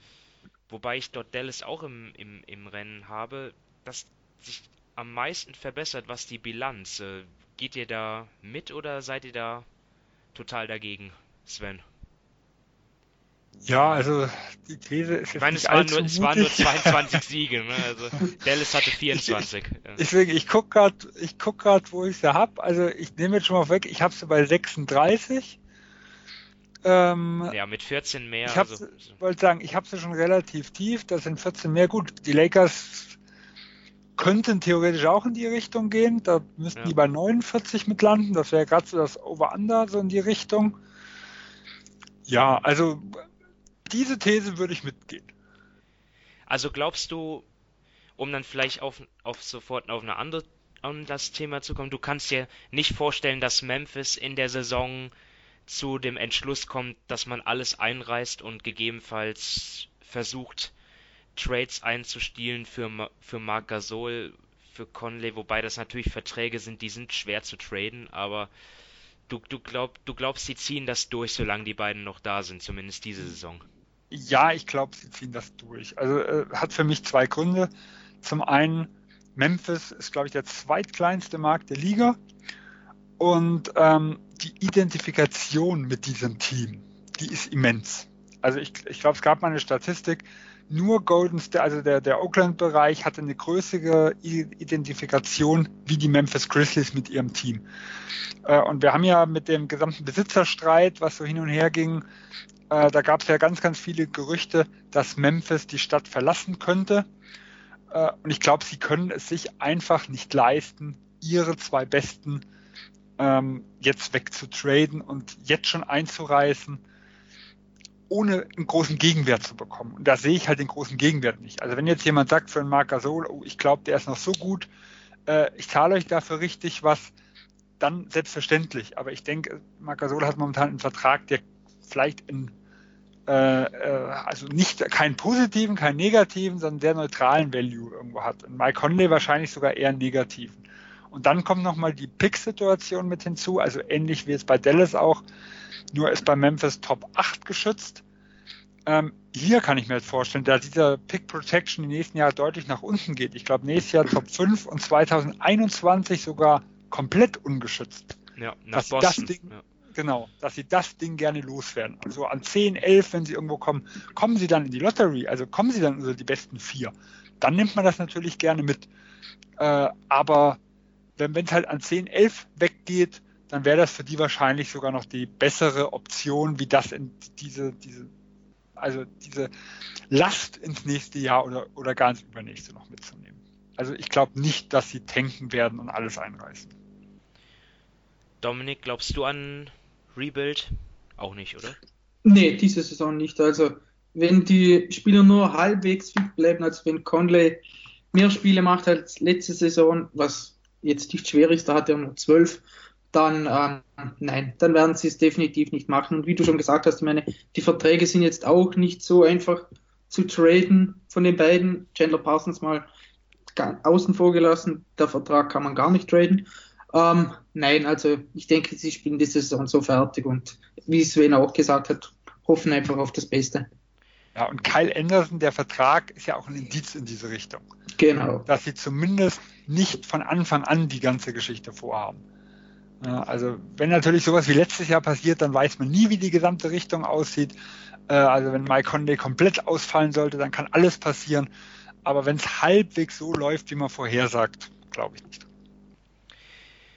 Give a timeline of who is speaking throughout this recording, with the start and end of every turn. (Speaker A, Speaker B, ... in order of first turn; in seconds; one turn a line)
Speaker A: 0.7-9.7
Speaker A: 10.3-11.8
Speaker B: 13.6-17.2
Speaker A: 15.3-20.0
Speaker B: 19.1-19.4
Speaker B: 20.0-25.6
Speaker B: 26.8-27.5
Speaker A: 27.5-29.2
Speaker B: 28.4-33.2
Speaker B: 34.1-40.8
Speaker B: 42.3-43.1
Speaker B: 43.9-45.3
Speaker A: 46.5-47.5
Speaker A: 48.2-55.1
Speaker A: 55.7-60.7
Speaker A: 61.3-68.5
Speaker A: 69.3-73.6
Speaker B: 74.1-77.7
Speaker B: 78.2-82.2
Speaker B: 83.2-97.6
Speaker B: 98.5-102.0
Speaker B: 102.7-107.1
Speaker B: 107.9-112.4
Speaker B: 113.2-116.8
Speaker B: 118.1-124.7
Speaker B: 125.3-127.1
Speaker B: 127.8-132.5
Speaker B: 133.3-145.2
Speaker B: 145.9-148.0
Speaker B: 148.8-158.1
Speaker A: 158.3-159.6
Speaker B: 158.7-168.9
Speaker B: 169.6-170.6
Speaker B: 171.2-178.1
Speaker B: 178.8-179.5
Speaker B: 180.1-186.7
Speaker A: 188.4-191.8
Speaker C: 192.2-202.6
Speaker C: 203.1-212.9
Speaker C: 213.5-223.7
Speaker B: 224.3-227.6
Speaker C: 228.0-228.5
Speaker B: 228.5-232.2
Speaker B: 233.0-237.5
Speaker B: 238.1-241.5
Speaker B: 242.0-245.5